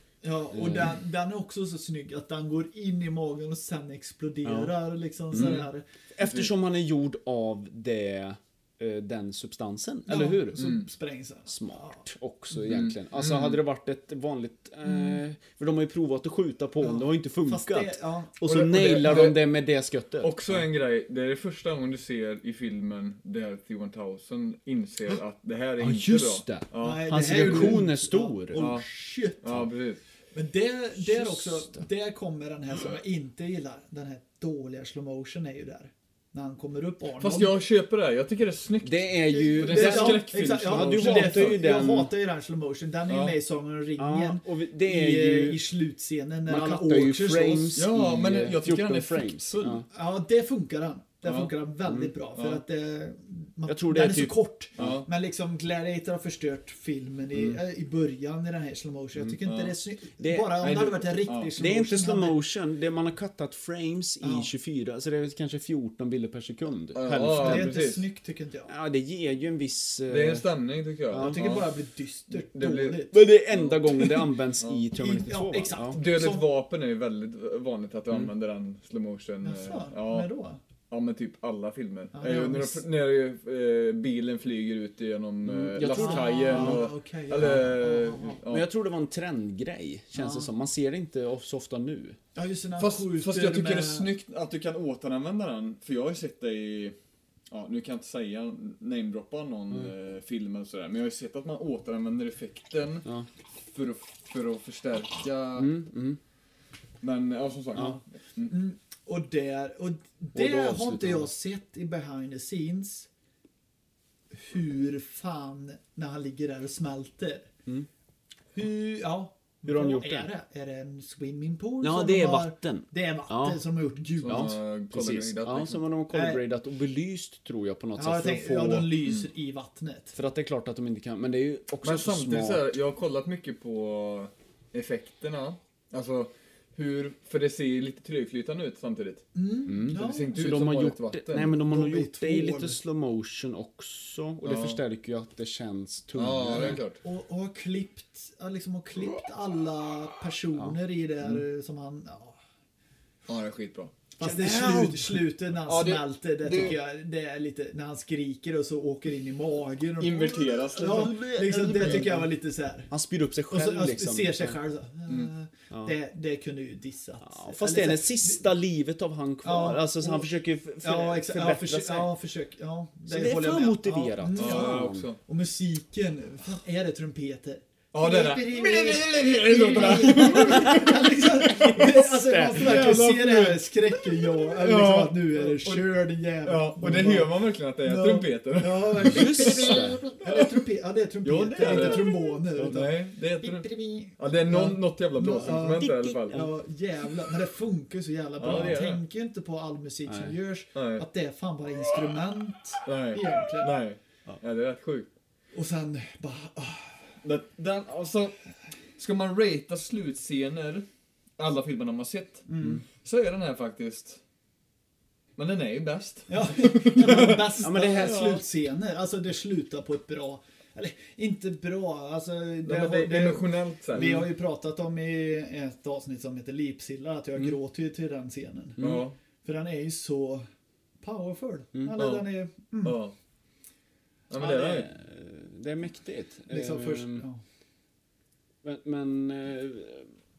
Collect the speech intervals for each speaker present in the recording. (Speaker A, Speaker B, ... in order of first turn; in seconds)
Speaker A: 0.2-5.8, 10.1-12.0, 14.9-15.2, 16.8-19.3, 26.8-29.5, 30.3-37.5, 39.4-47.8, 49.9-62.4, 64.2-64.5, 67.3-68.7, 71.1-73.2, 75.0-76.5, 79.4-80.6, 82.1-82.8, 85.8-88.4, 90.1-90.5, 92.3-94.1, 108.5-113.1, 114.3-117.5, 118.5-124.6, 126.1-126.4, 128.0-130.1, 139.3-140.5, 141.5-142.8, 146.5-152.4, 154.2-162.9, 163.5-168.4, 169.4-203.8, 205.5-207.2, 212.5-212.8, 216.3-228.9, 229.4-230.4, 231.0-233.0, 236.5-237.4
Speaker B: 0.5-0.9, 4.4-4.7, 5.3-10.6, 11.5-20.4, 25.8-28.6, 31.0-31.8, 38.8-42.1, 44.0-45.6, 46.5-49.9, 51.9-52.1, 53.7-54.9, 60.2-60.7, 61.6-67.7, 68.7-70.5, 71.1-71.5, 73.1-76.0, 85.4-86.9, 88.5-92.2, 105.5-106.2, 110.3-111.3, 119.6-120.3, 121.8-123.6, 124.2-128.9, 130.1-132.6, 139.7-146.8, 154.2-155.1, 160.8-162.3, 162.9-164.6, 167.2-172.1, 173.1-175.1, 179.8-183.0, 189.0-190.0, 195.6-196.5, 200.1-200.3, 217.6-218.4, 228.8-229.0, 234.4-237.2, 238.6-240.1
Speaker C: 6.2-6.5, 10.6-10.8, 12.6-13.6, 18.7-19.4, 20.2-27.8, 28.5-28.8, 29.4-30.0, 37.2-41.6, 43.1-43.4, 47.8-49.8, 51.2-51.5, 52.4-52.6, 54.8-55.0, 59.4-59.7, 60.6-61.5, 66.9-68.0, 70.1-71.7, 72.3-74.8, 75.9-80.3, 80.9-88.7, 92.8-97.0, 97.5-103.1, 103.7-105.7, 107.0-108.5, 124.2-125.8, 131.8-139.2, 139.8-141.5, 144.4-144.8, 146.1-147.0, 153.3-153.9, 155.6-156.8, 160.0-161.2, 174.4-175.2, 177.9-181.8, 182.5-184.0, 184.6-190.6, 191.2-193.7, 194.2-196.4, 198.4-199.0, 200.7-201.0, 202.8-205.1, 207.2-208.3, 209.0-210.8, 211.4-214.2, 215.4-218.4, 222.6-224.3, 228.8-229.2, 232.0-232.3, 232.8-233.2, 234.3-234.9